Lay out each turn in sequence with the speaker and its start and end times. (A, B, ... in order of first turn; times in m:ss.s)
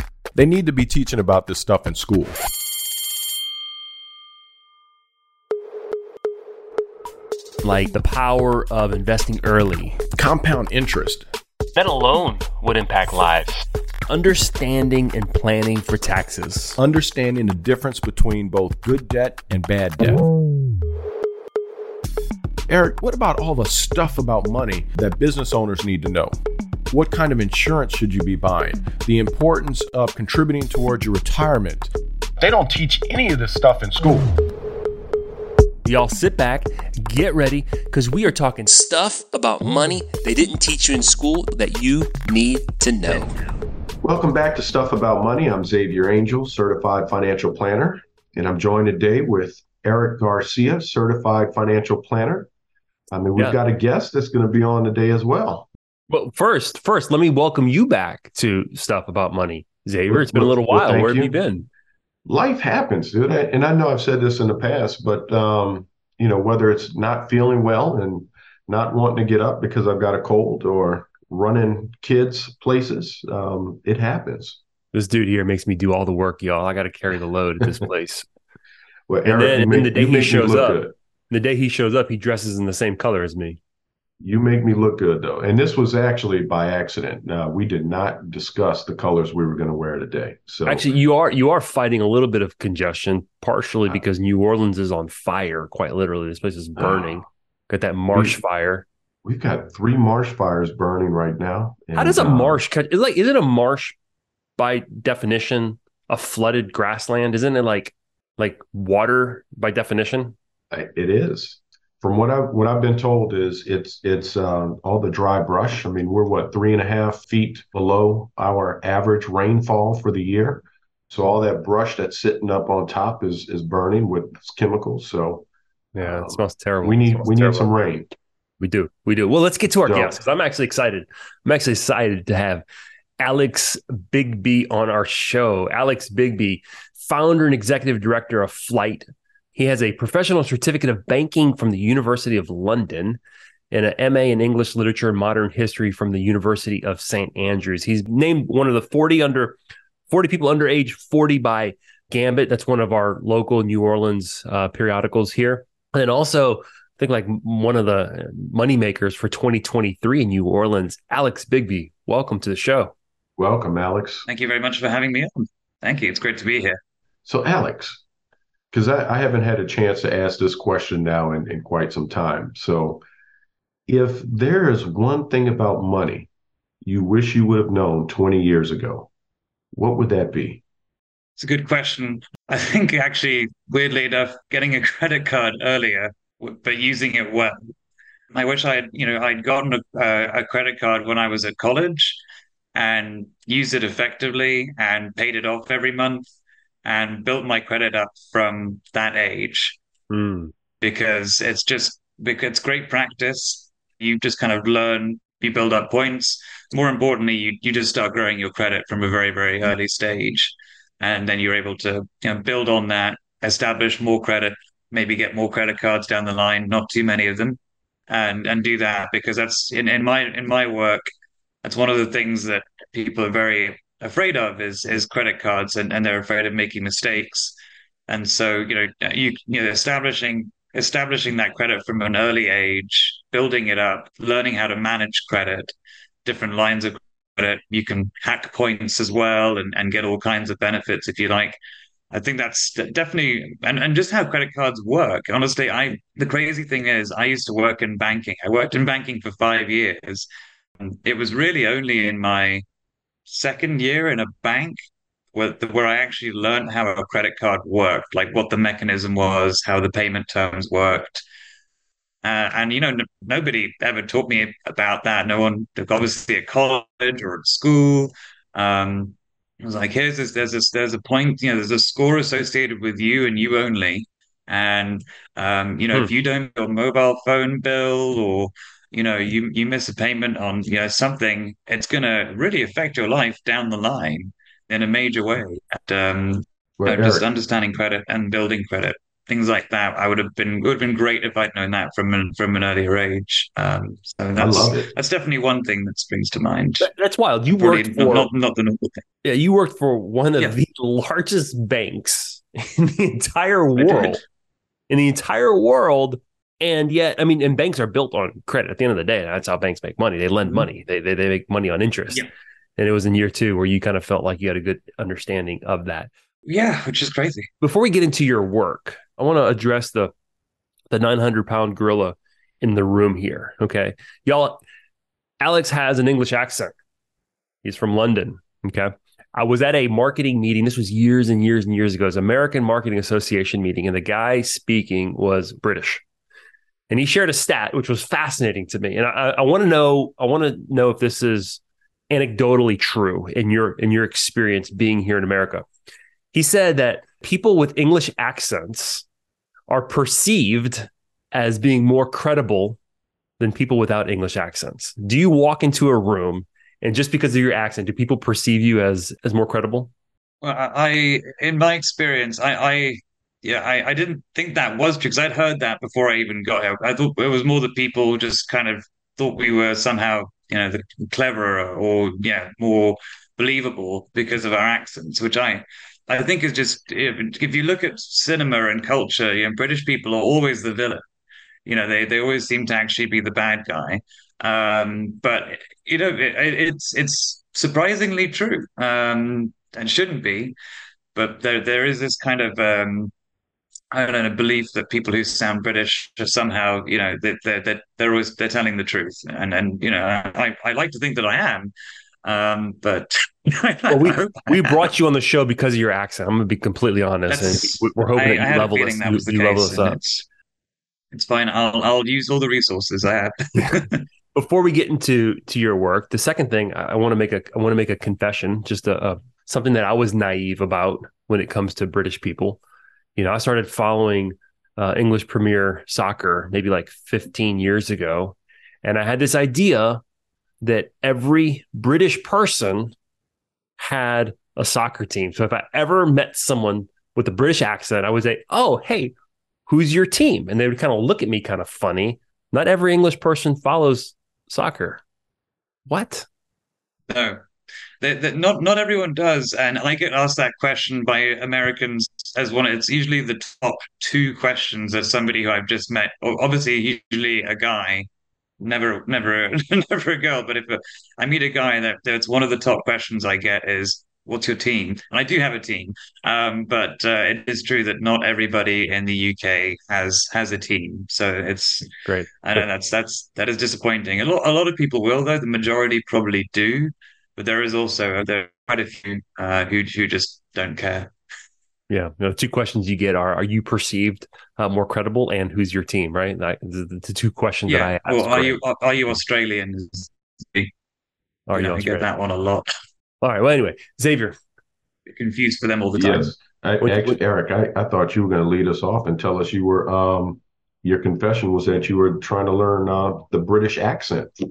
0:00.4-0:02.2 A
0:00.4-0:02.2 B
0:07.6-0:10.0 C
0:11.7-0:16.8 C
0:16.8-0:17.2 A
0:17.0-0:20.1 B
0:19.4-0:19.9 A
0:22.7-0:26.3 B
0:23.0-0:24.0 A
0:26.9-0:31.8 B
0:32.4-0:34.3 B
0:35.8-0:43.3 C
0:44.0-0:52.5 B
0:53.1-0:55.7 B
0:56.1-1:01.7 C
1:00.1-1:01.4 B
1:02.2-1:14.6 B
1:14.9-1:18.3 C
1:19.1-1:20.9 B
1:19.2-1:23.6 C
1:24.2-1:30.9 B
1:30.6-1:38.8 C
1:36.8-1:37.2 B
1:38.1-1:38.4 B
1:39.2-1:42.6 B
1:41.9-1:44.0 C
1:44.6-1:50.3 C
1:50.7-2:05.4 B
2:05.9-2:07.7 C
2:06.0-2:08.1 B
2:08.6-2:12.6 C
2:09.8-2:10.2 B
2:13.2-2:23.2 C
2:23.7-2:29.6 C
2:30.1-2:42.9 C
2:43.4-2:44.2 B
2:44.3-2:46.8 D
2:47.2-2:48.0 B
2:48.7-2:53.0 B
2:53.9-2:56.3 B
2:56.8-2:59.1 B
2:59.7-3:00.6 B
3:01.4-3:07.6 D
3:08.3-3:12.2 D
3:12.7-3:16.2 D
3:16.8-3:19.8 D
3:20.1-3:20.5 C
3:20.8-3:41.1 D
3:41.6-3:47.5 D
3:48.1-3:55.7 D
3:56.2-4:01.6 D
4:02.1-4:10.2 D
4:10.8-4:12.6 D
4:13.3-4:14.8 D
4:15.3-4:21.2 D
4:22.2-4:56.9 D
4:46.8-4:47.2 B
4:54.4-4:54.9 B
4:56.8-4:58.3 C
4:57.6-4:59.0 D
4:59.2-5:04.2 C
5:03.8-5:04.2 D
5:04.9-5:12.2 C
5:12.8-5:16.1 C
5:16.4-5:17.5 D
5:17.6-5:20.1 C
5:20.9-5:24.6 C
5:25.4-5:26.7 C
5:27.6-5:36.0 C
5:36.9-5:45.7 C
5:46.3-5:49.0 C
5:49.7-5:52.8 C
5:53.4-5:59.9 C
6:00.4-6:21.0 D
6:21.6-6:30.5 D
6:31.1-6:33.1 D
6:33.9-6:41.7 D
6:42.2-6:44.9 D
6:43.9-6:50.0 C
6:47.3-6:50.2 D
6:51.1-6:54.0 D
6:54.3-7:02.6 C
7:03.2-7:10.0 C
7:10.6-7:12.9 C
7:13.8-7:19.1 C
7:19.7-7:25.0 C
7:25.9-7:26.2 C
7:27.1-7:27.4 D
7:28.0-7:38.1 D
7:38.6-7:51.9 D
7:52.0-7:52.6 C
7:52.4-8:01.1 D
8:01.9-8:08.6 C
8:07.7-8:10.7 D
8:11.5-8:12.0 C
8:11.5-8:12.7 D
8:13.2-8:14.4 C
8:15.1-8:16.4 D
8:16.0-8:24.3 B
8:16.8-8:17.2 C